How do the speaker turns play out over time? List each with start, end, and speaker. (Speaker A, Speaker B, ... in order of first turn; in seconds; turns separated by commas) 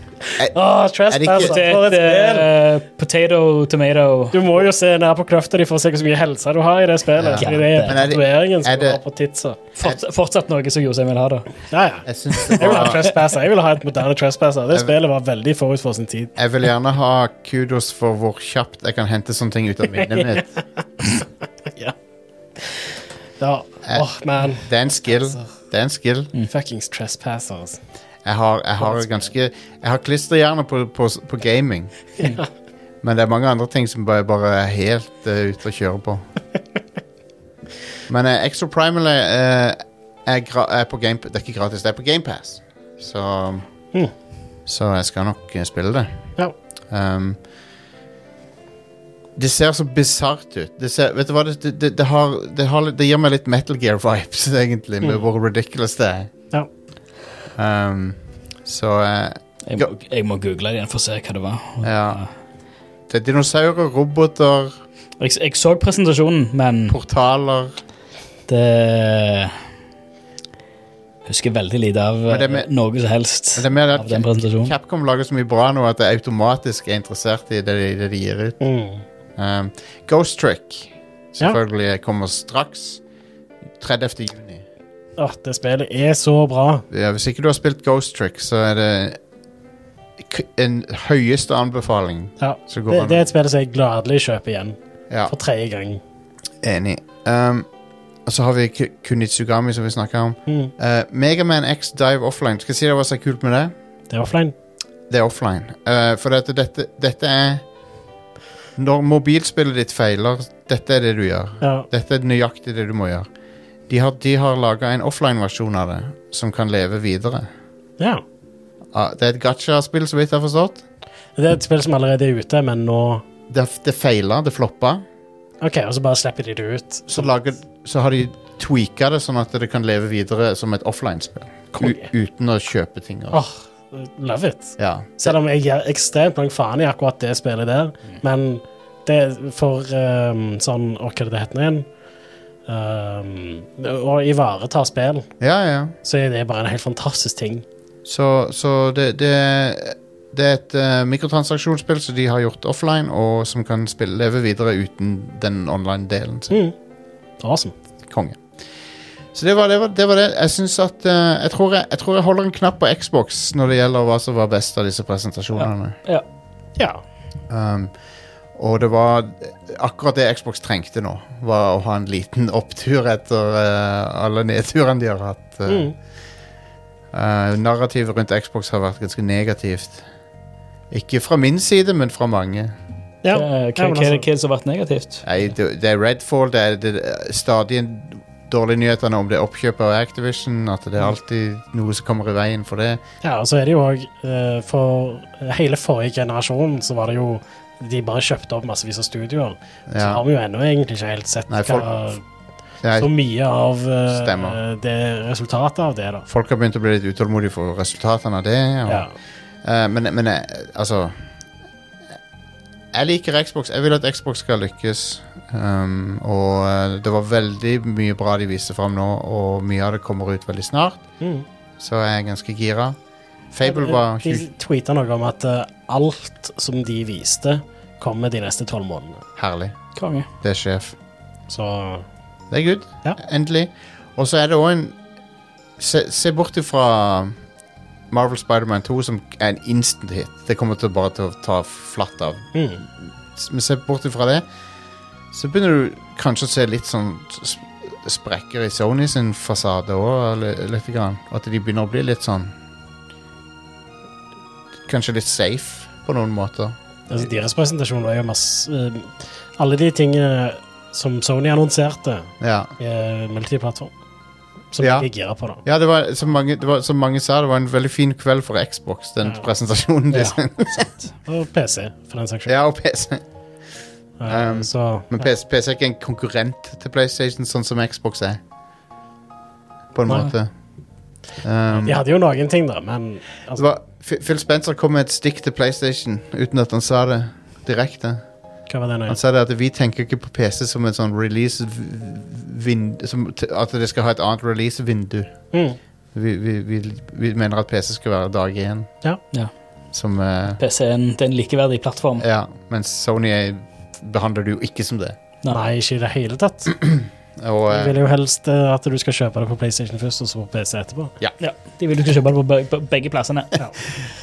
Speaker A: 0.2-2.5, Speaker B: 1.1-1.6, Speaker C: 1.4-4.4, Speaker A: 4.3-9.6, Speaker B: 7.2-9.0, Speaker C: 7.3-8.0, Speaker C: 9.8-11.6, Speaker A: 11.7-16.4, Speaker B: 12.1-13.1, Speaker C: 12.6-13.0, Speaker B: 16.4-20.5, Speaker A: 20.0-20.4, Speaker A: 22.6-22.8, Speaker A: 23.4-24.7, Speaker B: 23.8-26.3, Speaker A: 26.4-27.8, Speaker B: 28.2-32.1, Speaker A: 28.8-29.3, Speaker B: 33.0-36.2, Speaker B: 38.1-43.6, Speaker B: 44.7-46.3, Speaker B: 46.9-47.4, Speaker B: 49.4-56.3, Speaker B: 57.5-59.9, Speaker C: 59.6-62.3, Speaker B: 61.8-62.2, Speaker B: 63.1-64.8, Speaker C: 65.2-67.0, Speaker B: 66.9-67.8, Speaker C: 68.5-69.5, Speaker C: 71.2-74.7, Speaker B: 72.3-72.7, Speaker B: 73.5-78.6, Speaker A: 78.6-79.0, Speaker B: 79.4-83.0, Speaker B: 83.8-84.6, Speaker A: 85.2-86.8, Speaker B: 86.9-89.2, Speaker B: 90.2-93.2, Speaker A: 92.4-96.0, Speaker B: 96.6-97.7, Speaker B: 98.2-103.7, Speaker A: 100.5-100.7, Speaker A: 104.1-104.5, Speaker B: 105.1-107.6, Speaker B: 108.8-113.3, Speaker A: 111.6-111.9, Speaker B: 113.9-117.5, Speaker B: 118.9-120.8, Speaker A: 121.3-123.2, Speaker B: 123.5-125.0, Speaker A: 125.6-127.5, Speaker B: 127.1-133.4, Speaker A: 131.8-132.1, Speaker A: 133.3-141.9, Speaker B: 134.8-135.3, Speaker A: 142.7-145.3, Speaker B: 145.4-145.9, Speaker A: 146.0-147.6, Speaker B: 148.0-156.6, Speaker A: 157.4-157.7, Speaker B: 158.1-158.4, Speaker B: 159.3-166.0, Speaker C: 165.6-166.2, Speaker A: 166.8-167.0, Speaker B: 167.5-167.9, Speaker B: 168.5-175.9, Speaker A: 175.7-175.9, Speaker B: 177.1-180.0, Speaker B: 180.9-182.7, Speaker A: 183.2-184.2, Speaker C: 183.3-185.2, Speaker B: 185.2-193.0, Speaker A: 193.2-202.2, Speaker B: 199.9-200.2, Speaker B: 201.5-201.9, Speaker B: 202.8-203.1, Speaker A: 202.9-206.2, Speaker B: 204.1-204.6, Speaker B: 206.3-209.1, Speaker A: 208.8-209.1, Speaker B: 209.6-211.3, Speaker B: 212.9-221.0, Speaker A: 221.2-221.4, Speaker B: 221.8-223.0, Speaker B: 223.5-224.5, Speaker A: 223.6-229.2, Speaker B: 229.4-229.9, Speaker C: 229.9-230.3, Speaker B: 230.4-230.9, Speaker A: 231.5-232.1, Speaker B: 232.5-235.0, Speaker B: 235.8-237.4, Speaker B: 238.1-244.4, Speaker A: 242.5-242.8, Speaker B: 245.3-252.5, Speaker B: 254.8-257.2, Speaker A: 257.1-263.9, Speaker B: 262.4-262.7, Speaker A: 264.7-265.6, Speaker B: 264.8-265.1, Speaker B: 265.6-270.9, Speaker A: 271.2-272.5, Speaker B: 272.5-273.2, Speaker A: 274.2-275.3, Speaker B: 274.2-278.4, Speaker B: 279.9-280.5, Speaker B: 281.4-282.0, Speaker A: 281.7-283.7, Speaker B: 283.5-288.3, Speaker A: 288.7-289.2, Speaker B: 289.1-295.3, Speaker A: 295.5-295.8, Speaker B: 296.1-298.9, Speaker B: 299.9-300.6, Speaker C: 300.6-302.2, Speaker B: 302.2-305.1, Speaker A: 305.5-306.8, Speaker B: 306.8-307.9, Speaker A: 307.7-311.1, Speaker C: 311.4-313.6